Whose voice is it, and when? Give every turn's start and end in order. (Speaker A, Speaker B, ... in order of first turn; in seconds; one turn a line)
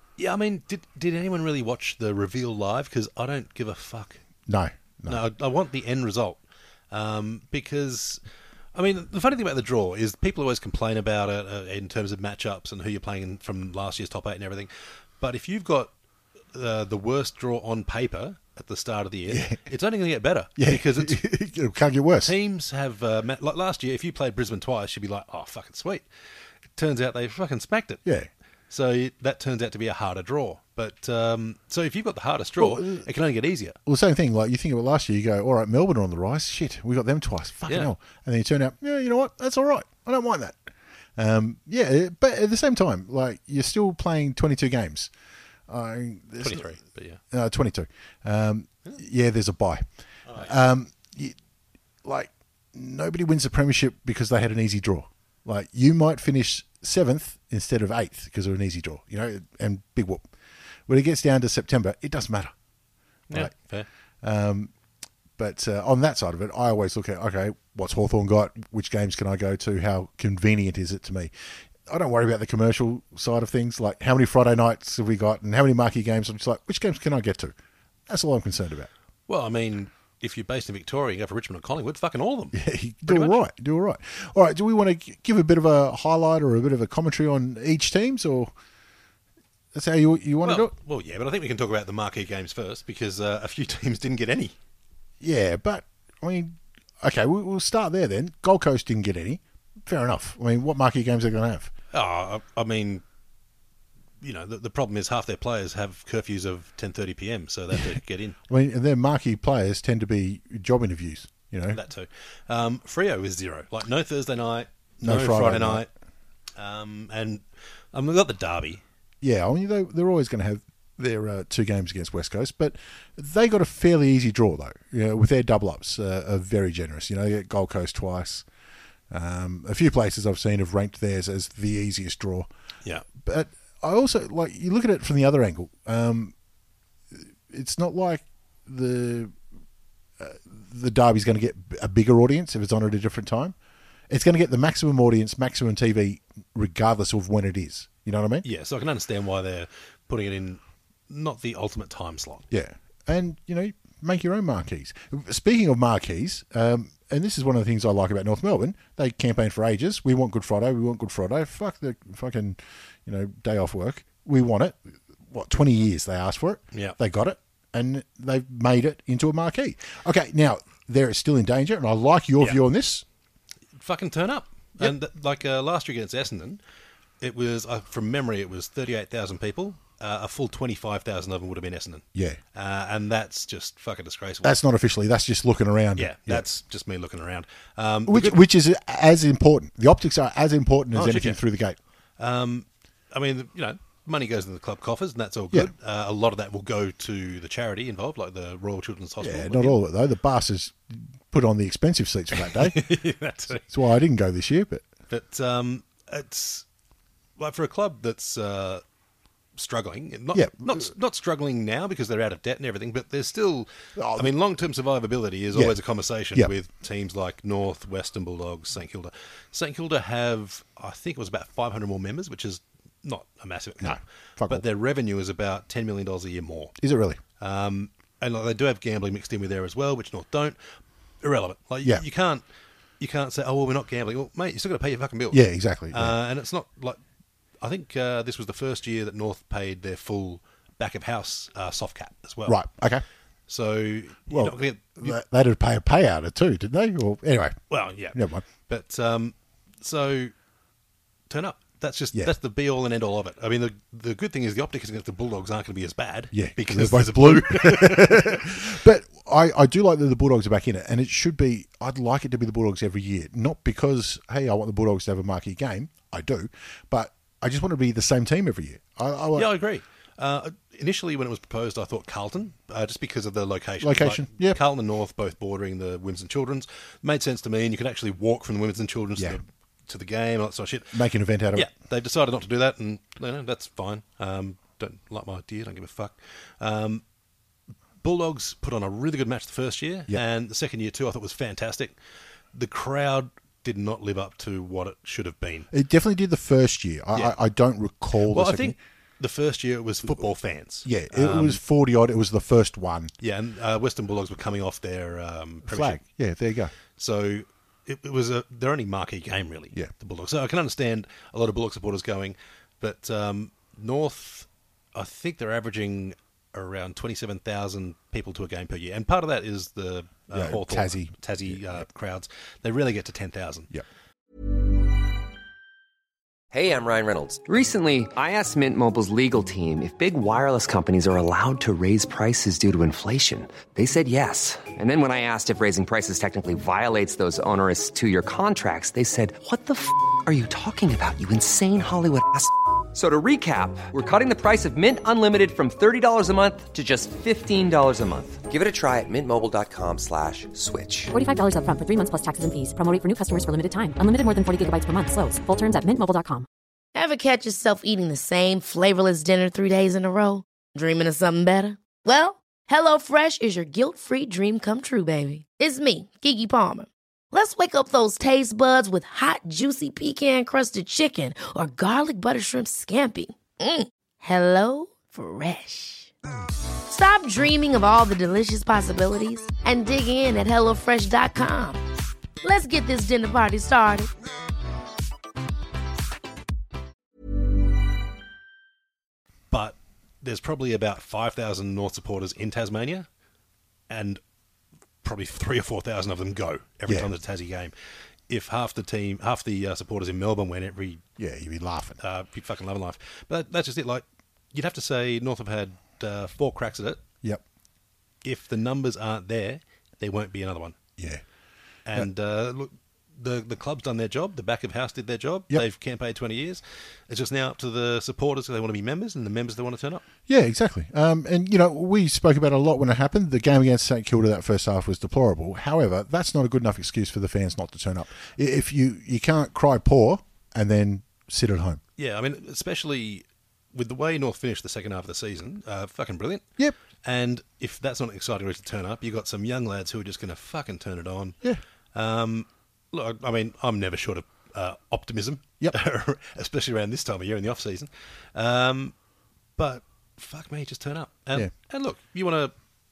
Speaker A: 0.2-4.2
Speaker B: 4.5-5.2
Speaker A: 5.1-6.4
Speaker A: 6.9-8.2
Speaker A: 8.7-15.9
Speaker A: 16.5-21.2
Speaker B: 19.3-19.6
Speaker B: 20.6-22.3
Speaker A: 22.2-26.1
Speaker A: 26.8-28.0
Speaker A: 28.7-33.8
Speaker B: 32.6-33.0
Speaker B: 33.9-40.6
Speaker A: 37.7-37.9
Speaker B: 41.2-45.1
Speaker B: 45.7-46.8
Speaker A: 46.4-47.2
Speaker B: 47.3-51.4
Speaker B: 52.0-60.3
Speaker B: 60.9-62.5
Speaker A: 63.3-63.9
Speaker B: 64.2-64.7
Speaker B: 65.4-71.3
Speaker B: 71.9-77.5
Speaker B: 78.1-78.9
Speaker A: 79.3-83.4
Speaker B: 82.5-88.5
Speaker B: 89.7-90.7
Speaker A: 90.4-94.5
Speaker B: 95.2-101.7
Speaker A: 101.9-103.0
Speaker A: 104.2-108.4
Speaker B: 108.5-111.8
Speaker A: 111.7-115.9
Speaker B: 115.0-115.8
Speaker A: 116.6-118.8
Speaker B: 119.2-128.4
Speaker B: 129.1-132.5
Speaker B: 133.1-136.3
Speaker B: 137.1-139.3
Speaker B: 140.2-143.5
Speaker B: 144.1-148.4
Speaker A: 148.4-152.5
Speaker B: 152.5-173.0
Speaker A: 173.8-176.6
Speaker A: 177.2-184.6
Speaker B: 184.4-186.4
Speaker A: 185.9-188.4
Speaker B: 188.1-191.8
Speaker A: 190.9-191.4
Speaker A: 192.2-199.8
Speaker B: 199.2-202.9
Speaker A: 202.3-203.7
Speaker B: 203.6-204.8
Speaker A: 205.1-206.6
Speaker A: 207.4-208.8
Speaker A: 209.6-226.7
Speaker B: 210.3-210.9
Speaker B: 214.0-214.3
Speaker B: 223.8-224.6
Speaker B: 226.8-227.2
Speaker A: 227.4-230.6
Speaker A: 231.2-232.4
Speaker A: 233.0-237.0
Speaker B: 235.3-236.2
Speaker A: 237.6-242.6
Speaker B: 242.4-243.0
Speaker A: 243.5-245.2
Speaker B: 244.3-247.6
Speaker A: 247.7-250.3
Speaker B: 248.1-248.4
Speaker A: 251.3-258.6
Speaker B: 256.3-269.5
Speaker A: 269.3-281.0
Speaker B: 273.8-274.6
Speaker B: 280.9-281.7
Speaker A: 281.5-287.0
Speaker A: 288.0-291.9
Speaker A: 292.5-295.7
Speaker B: 295.7-298.8
Speaker A: 298.3-301.6
Speaker B: 300.8-303.1
Speaker A: 303.2-306.0
Speaker B: 305.6-306.7
Speaker A: 307.0-323.7
Speaker B: 320.3-321.1
Speaker C: 326.5-351.1
Speaker D: 351.1-356.4
Speaker E: 356.9-376.1
Speaker E: 376.9-381.8
Speaker E: 382.4-384.1
Speaker A: 389.5-393.1
Speaker A: 393.9-394.2
Speaker A: 395.0-397.7
Speaker B: 396.9-397.1
Speaker A: 398.3-401.0
Speaker B: 401.2-402.0
Speaker A: 402.0-407.0
Speaker A: 408.2-410.8
Speaker B: 411.0-411.2
Speaker A: 411.9-420.0
Speaker B: 420.3-431.8
Speaker A: 432.0-436.4
Speaker A: 437.0-441.4
Speaker A: 441.9-448.9
Speaker A: 449.6-452.5